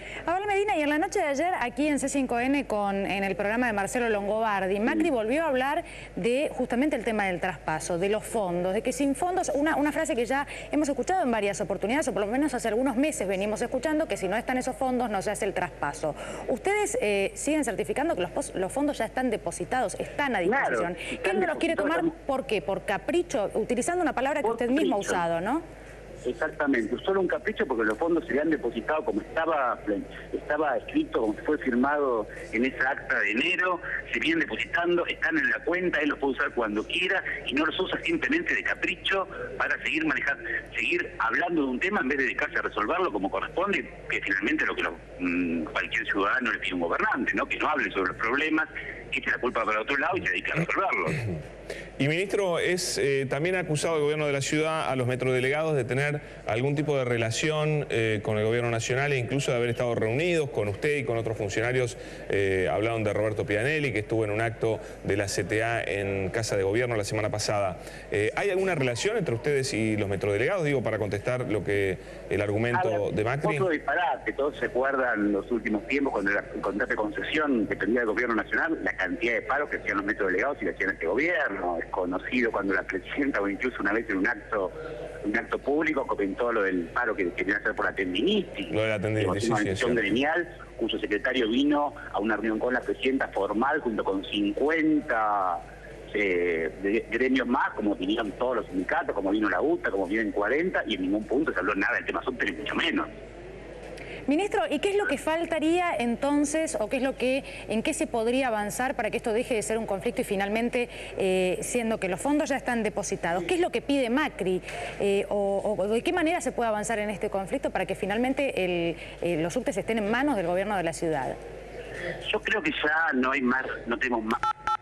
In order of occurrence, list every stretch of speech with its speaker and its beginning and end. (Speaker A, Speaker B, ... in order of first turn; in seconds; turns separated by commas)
Speaker A: 0.2-25.6, Speaker B: 20.4-22.1, Speaker B: 24.5-25.2, Speaker B: 26.2-51.2, Speaker C: 52.0-73.7, Speaker B: 72.7-103.1, Speaker C: 88.7-90.0, Speaker A: 104.3-121.3, Speaker B: 122.2-124.4